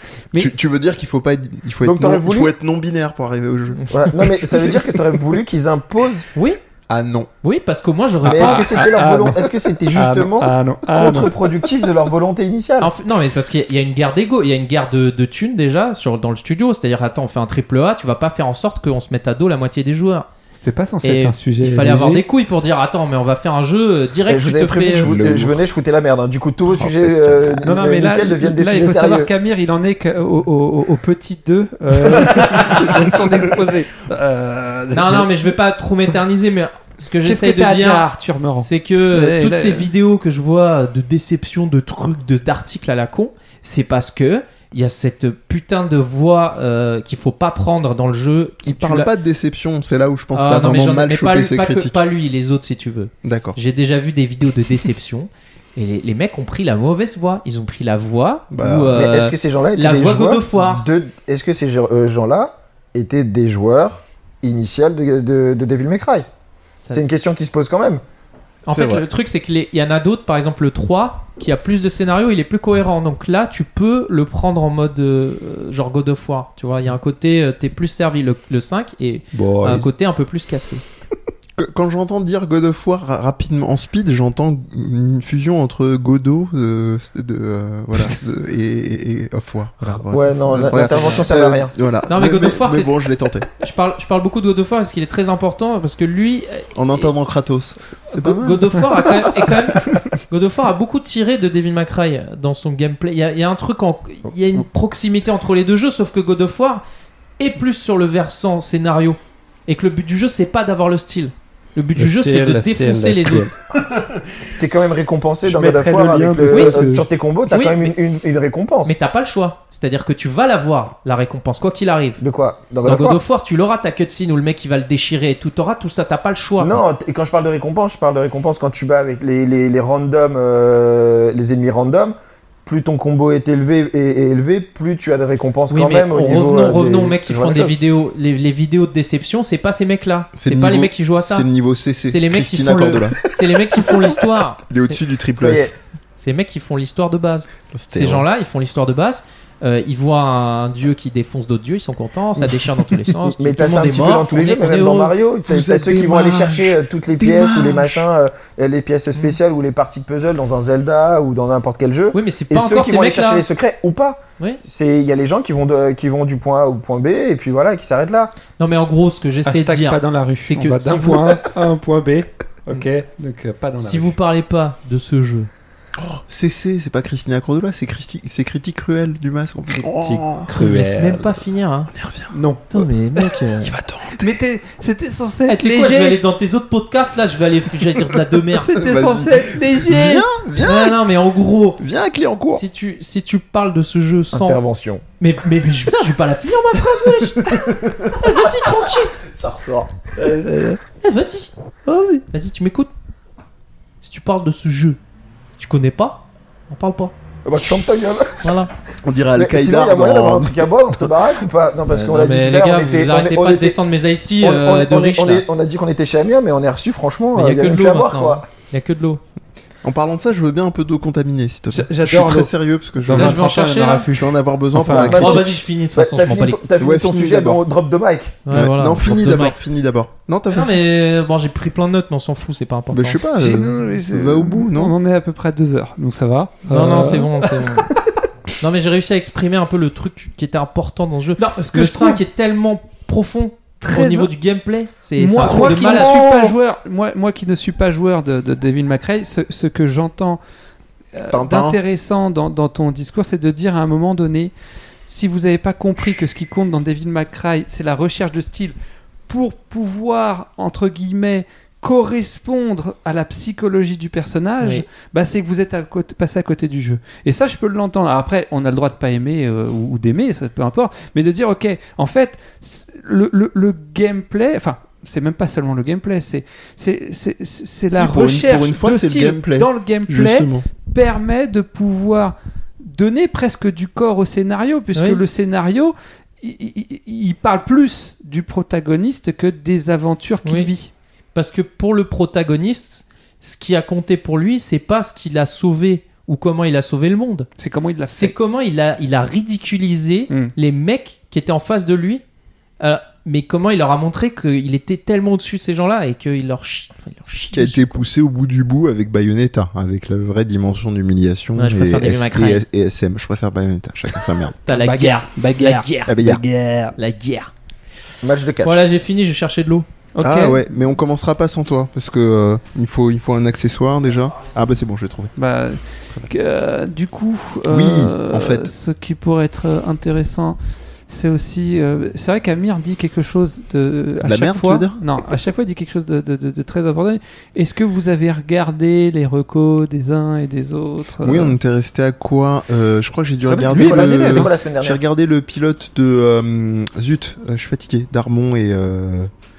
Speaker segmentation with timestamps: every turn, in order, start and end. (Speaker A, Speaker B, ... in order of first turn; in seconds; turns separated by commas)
Speaker A: 0.3-4.8, Speaker B: 1.8-2.5, Speaker B: 3.9-6.3, Speaker C: 6.3-6.6, Speaker A: 6.9-7.3, Speaker C: 7.4-8.9, Speaker D: 8.2-11.3, Speaker B: 8.2-12.9, Speaker C: 12.8-20.3, Speaker D: 20.5-22.2, Speaker C: 21.0-25.1, Speaker B: 24.3-29.3, Speaker A: 25.0-25.6, Speaker A: 26.7-27.6, Speaker D: 27.6-35.5, Speaker C: 34.9-49.1, Speaker D: 37.2-39.9, Speaker A: 48.6-52.0, Speaker C: 50.4-60.9, Speaker A: 53.2-53.6, Speaker A: 58.5-59.1, Speaker B: 58.9-66.3, Speaker B: 66.9-68.0, Speaker C: 68.7-80.8, Speaker A: 68.7-69.0, Speaker D: 79.3-79.9, Speaker A: 81.6-93.5, Speaker B: 90.1-91.7, Speaker C: 90.7-91.3, Speaker C: 92.1-93.0, Speaker C: 93.6-97.1, Speaker A: 96.8-99.5, Speaker C: 98.1-106.8, Speaker C: 107.4-113.5, Speaker D: 112.0-113.5, Speaker B: 114.6-119.0, Speaker D: 115.4-117.0, Speaker C: 116.5-116.8, Speaker C: 117.5-118.0, Speaker C: 118.8-122.2, Speaker B: 122.2-123.2, Speaker C: 122.8-126.8, Speaker B: 126.6-137.7, Speaker C: 135.7-141.5, Speaker A: 140.4-143.2, Speaker C: 142.0-145.0, Speaker A: 144.7-145.7, Speaker B: 145.4-145.7, Speaker C: 146.2-155.1, Speaker A: 147.7-148.2, Speaker B: 153.3-168.3, Speaker A: 155.5-158.1, Speaker C: 162.1-163.5, Speaker C: 168.6-171.4, Speaker D: 169.4-174.2, Speaker C: 173.8-175.5, Speaker A: 176.0-180.5, Speaker C: 179.9-181.9, Speaker D: 180.5-181.4, Speaker A: 181.9-182.3, Speaker D: 182.3-182.6, Speaker C: 182.7-183.7, Speaker A: 183.4-184.3, Speaker D: 184.2-186.2, Speaker C: 185.5-188.8, Speaker D: 188.5-190.2, Speaker A: 188.7-191.0, Speaker C: 190.6-191.8, Speaker A: 191.8-192.6, Speaker C: 192.5-194.6, Speaker B: 194.3-195.0, Speaker C: 195.2-199.2, Speaker B: 198.3-200.1, Speaker D: 200.2-200.8, Speaker C: 201.0-201.5, Speaker D: 201.9-202.2, Speaker C: 202.3-202.9, Speaker C: 204.0-205.0, Speaker C: 205.6-207.1, Speaker B: 207.4-208.5, Speaker C: 208.4-208.7, Speaker A: 209.0-211.1, Speaker B: 209.4-213.8, Speaker C: 211.9-215.4, Speaker B: 214.4-218.4, Speaker C: 217.3-219.2, Speaker A: 219.8-223.5, Speaker D: 221.7-225.2, Speaker C: 223.1-224.1, Speaker A: 224.1-225.5, Speaker B: 224.9-228.4, Speaker C: 224.9-226.6, Speaker A: 226.8-227.6, Speaker C: 228.5-229.6, Speaker A: 228.5-230.8, Speaker C: 230.5-233.2, Speaker A: 232.9-234.9, Speaker D: 233.4-238.0, Speaker C: 236.7-237.9, Speaker C: 238.6-246.2, Speaker D: 241.4-242.2, Speaker D: 243.8-244.3, Speaker D: 245.2-250.4, Speaker B: 245.4-246.5, Speaker D: 251.1-254.5, Speaker A: 251.3-251.8, Speaker D: 255.1-258.8, Speaker D: 259.3-290.9, Speaker C: 264.6-264.9, Speaker A: 277.9-280.6, Speaker C: 284.9-285.2, Speaker C: 290.4-290.7, Speaker C: 291.4-297.5, Speaker D: 297.6-298.3, Speaker C: 298.1-302.2, Speaker C: 302.8-308.0, Speaker A: 307.5-314.6, Speaker C: 311.6-312.6, Speaker C: 314.6-316.1, Speaker D: 314.7-317.0, Speaker A: 316.1-316.4, Speaker C: 317.0-317.5, Speaker B: 318.2-318.8, Speaker C: 318.6-319.9, Speaker D: 320.2-320.6, Speaker A: 320.2-325.3, Speaker D: 325.4-330.6, Speaker A: 327.7-328.7, Speaker D: 331.1-341.6, Speaker A: 334.2-335.0, Speaker A: 341.2-349.3, Speaker B: 343.4-345.0, Speaker D: 343.7-344.5